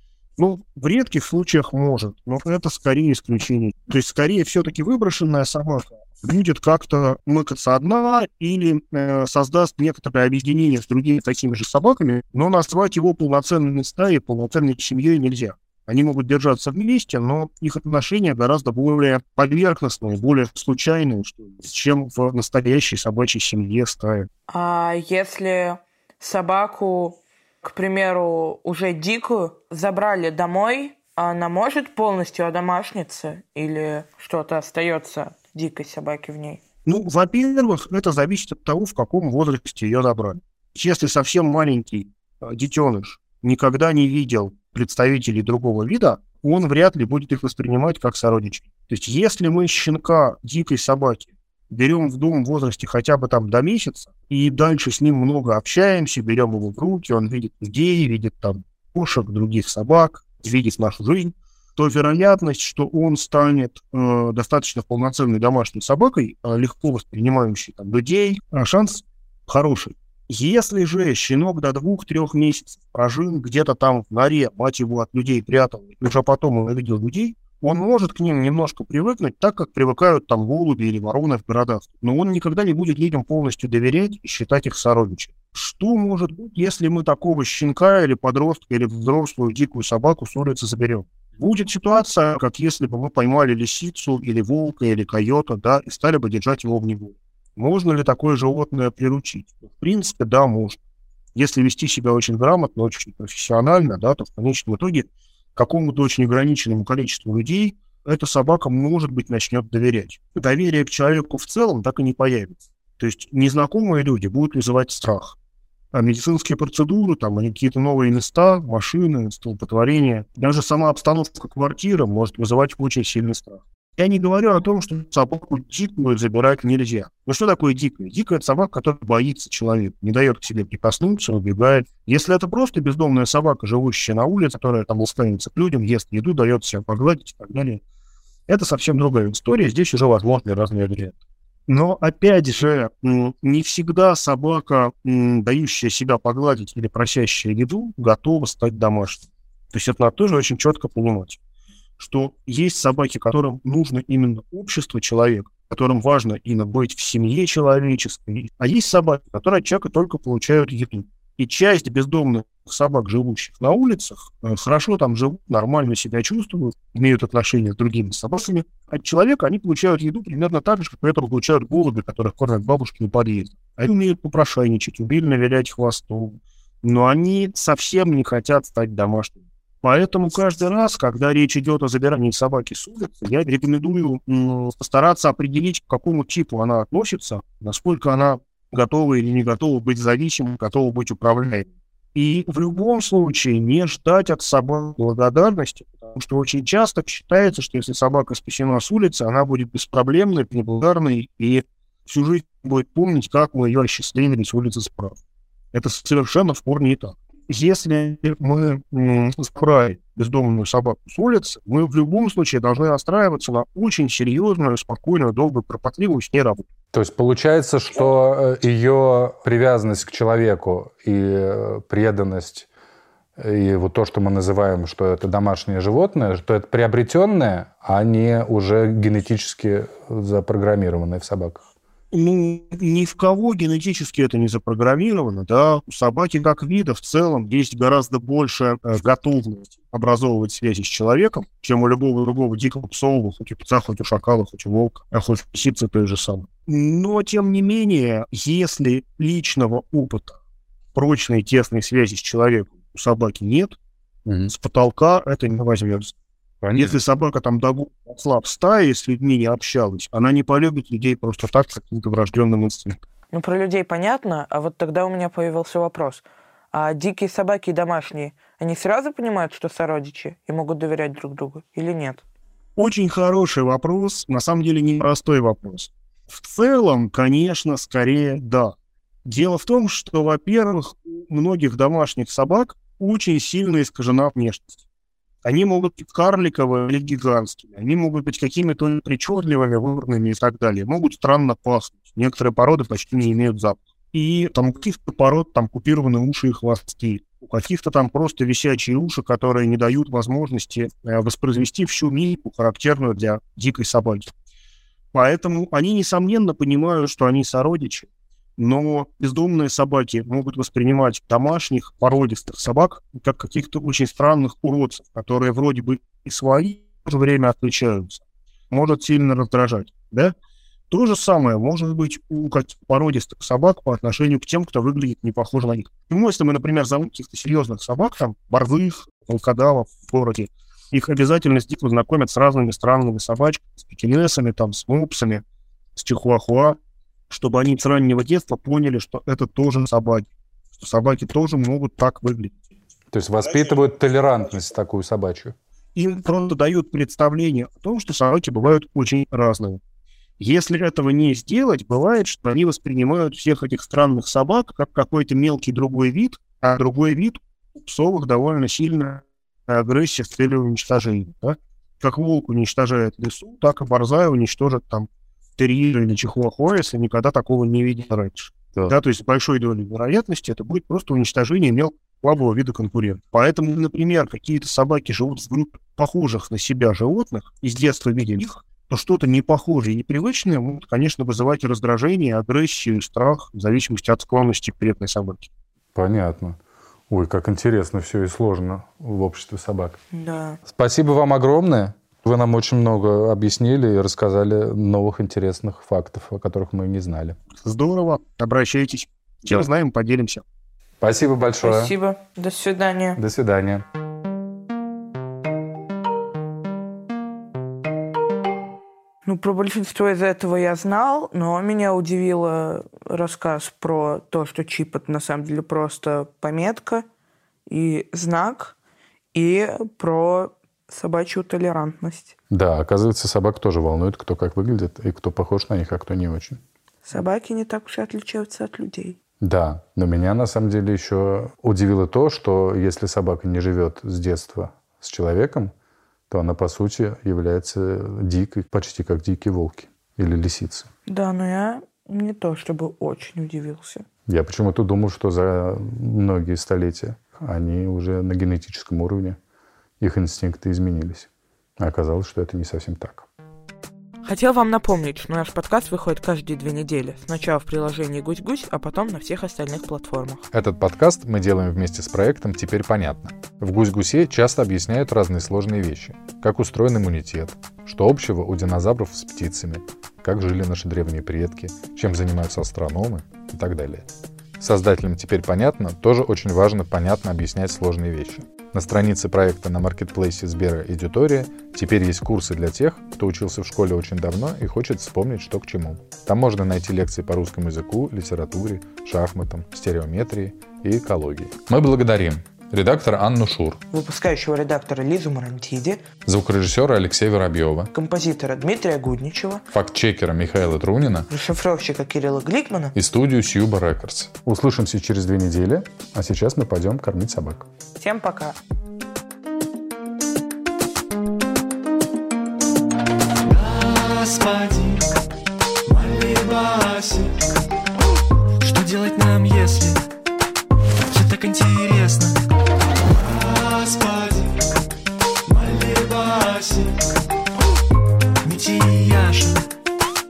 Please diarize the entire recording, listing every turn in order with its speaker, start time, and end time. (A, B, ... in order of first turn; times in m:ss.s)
0:00.4-0:24.3 A
0:24.5-0:36.6 B
0:36.8-1:40.8 A
1:41.3-1:55.4 A
1:55.9-2:17.8 A
2:18.5-2:21.1 A
2:21.7-2:31.4 A
2:32.0-3:25.2 A
3:25.7-3:36.6 A
3:36.9-3:42.7 C
3:43.4-3:51.6 C
3:52.1-4:10.4 A
4:10.9-4:13.8 A
4:14.2-4:14.5 C
4:14.5-4:16.1 A
4:16.6-4:16.9 C
4:16.8-4:23.0 A
4:23.3-4:32.2 B
4:32.8-4:44.7 A
4:45.4-5:04.3 A
5:05.1-5:20.3 A
5:20.9-5:35.4 A
5:36.0-5:36.8 A
5:37.3-5:42.5 A
5:43.1-5:45.5 C
5:45.9-5:49.8 A
5:50.4-6:25.5 A
6:25.9-6:26.6 C
6:27.1-6:30.0 C
6:30.1-6:30.6 B
6:30.6-6:37.4 C
6:37.6-6:40.4 A
6:41.0-6:41.9 C
6:41.6-6:43.2 B
6:43.2-6:43.8 C
6:49.2-6:57.0 B
6:57.7-6:58.8 B
6:59.3-7:02.3 B
7:02.5-7:06.6 C
7:07.0-7:09.2 B
7:09.4-7:15.7 C
7:16.3-7:20.9 C
7:21.1-7:24.0 B
7:24.3-7:29.4 C
7:30.0-7:31.3 C
7:31.8-7:33.3 C
7:34.2-7:40.4 B
7:40.5-8:13.8 C
8:13.9-8:16.0 B
8:16.2-8:17.9 C
8:17.9-8:19.6 B
8:19.7-8:21.3 C
8:21.3-8:22.9 B
8:22.9-8:27.7 C
8:28.0-8:28.6 B
8:33.5-8:35.1 D
8:35.8-8:37.4 D
8:38.6-8:40.0 D
8:41.1-8:42.4 D
8:43.1-8:44.7 D
8:45.4-8:47.1 D
8:48.4-8:49.7 D